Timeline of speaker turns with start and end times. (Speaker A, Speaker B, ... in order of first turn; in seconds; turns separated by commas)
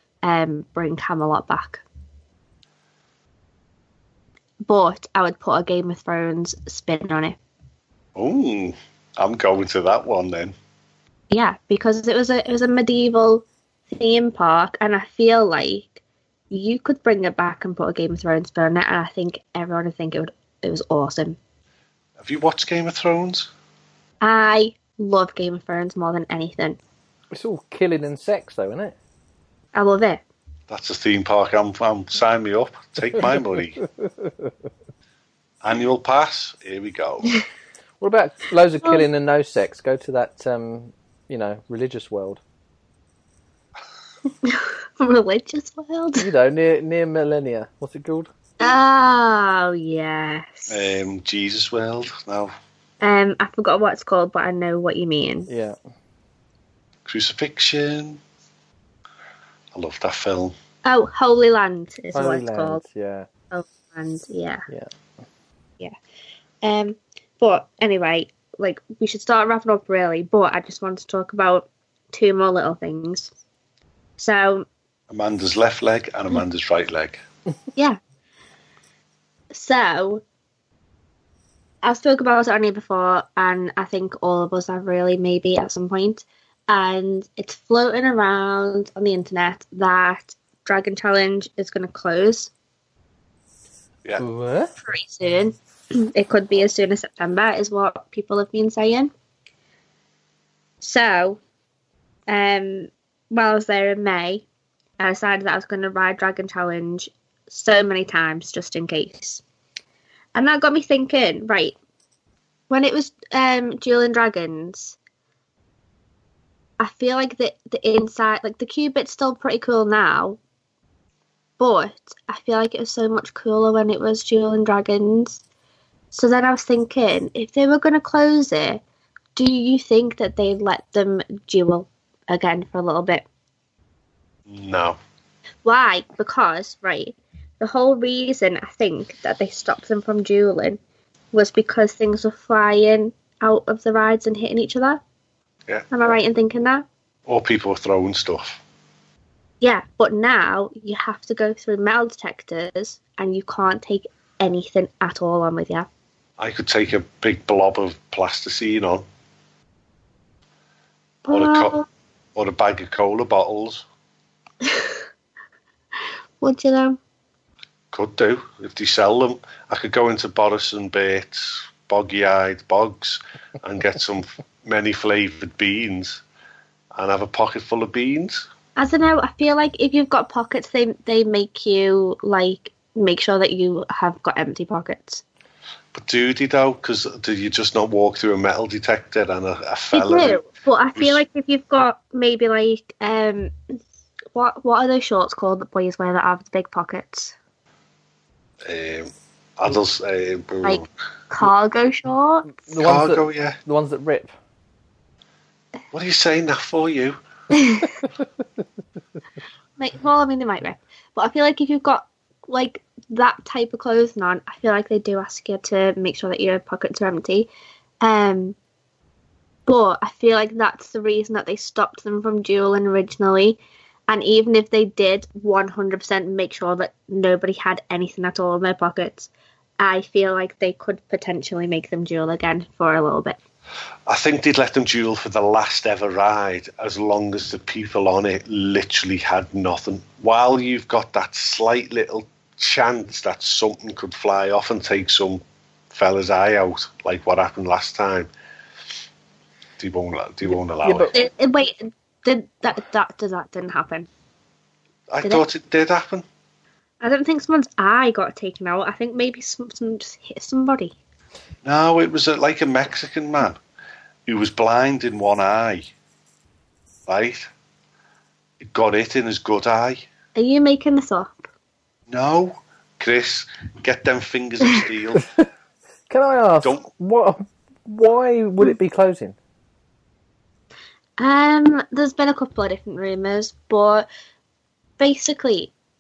Speaker A: 0.2-1.8, Speaker A: 4.7-7.4, Speaker B: 8.2-10.6, Speaker A: 11.3-21.4, Speaker B: 22.2-23.5, Speaker A: 24.2-26.8, Speaker C: 27.3-29.0, Speaker A: 29.8-30.2, Speaker B: 30.7-33.8, Speaker C: 34.0-34.5, Speaker B: 35.6-37.4, Speaker C: 38.0-42.4, Speaker A: 44.4-46.3, Speaker C: 46.2-48.3, Speaker A: 48.6-50.8, Speaker B: 50.7-52.5, Speaker A: 53.0-55.5, Speaker C: 55.5-55.8, Speaker B: 57.1-58.2, Speaker B: 59.7-60.5, Speaker A: 60.8-62.8, Speaker C: 62.1-63.3, Speaker A: 63.5-64.6, Speaker A: 66.6-73.3, Speaker A: 74.2-74.7, Speaker B: 75.1-77.2, Speaker A: 79.5-80.2, Speaker A: 81.8-92.5, Speaker C: 94.2-94.7, Speaker A: 94.8-99.1, Speaker A: 100.8-101.4, Speaker A: 102.3-104.5, Speaker A: 105.0-109.4, Speaker A: 110.3-111.8, Speaker A: 112.7-115.0, Speaker A: 116.8-120.4, Speaker A: 121.6-125.4, Speaker A: 126.1-128.8, Speaker A: 129.4-133.2, Speaker B: 134.5-135.0, Speaker A: 135.7-140.8, Speaker A: 141.3-145.0, Speaker A: 145.9-146.9, Speaker B: 147.3-148.6, Speaker A: 149.6-155.9, Speaker B: 156.4-159.1, Speaker A: 161.3-161.9, Speaker B: 161.3-161.8, Speaker B: 162.3-163.8, Speaker A: 166.4-167.0, Speaker B: 167.9-176.2, Speaker B: 176.9-178.5, Speaker A: 178.8-185.2, Speaker B: 185.9-190.4, Speaker A: 189.9-193.5, Speaker A: 194.3-197.3, Speaker B: 198.7-200.8, Speaker A: 200.6-202.6, Speaker C: 202.6-204.3, Speaker B: 202.8-203.6, Speaker B: 205.9-207.2, Speaker A: 207.5-207.8, Speaker A: 209.8-217.5, Speaker A: 218.0-218.6, Speaker A: 219.7-233.4, Speaker B: 234.1-248.3, Speaker B: 249.8-251.1, Speaker C: 250.5-251.1, Speaker A: 251.1-254.1, Speaker B: 255.1-256.2, Speaker A: 257.0-260.9, Speaker B: 261.6-263.6, Speaker B: 264.3-265.9, Speaker B: 267.1-267.5, Speaker B: 268.6-270.0, Speaker A: 270.4-271.4, Speaker B: 272.1-275.3, Speaker C: 276.1-279.4, Speaker B: 276.6-276.9, Speaker A: 281.2-284.1, Speaker A: 285.0-285.7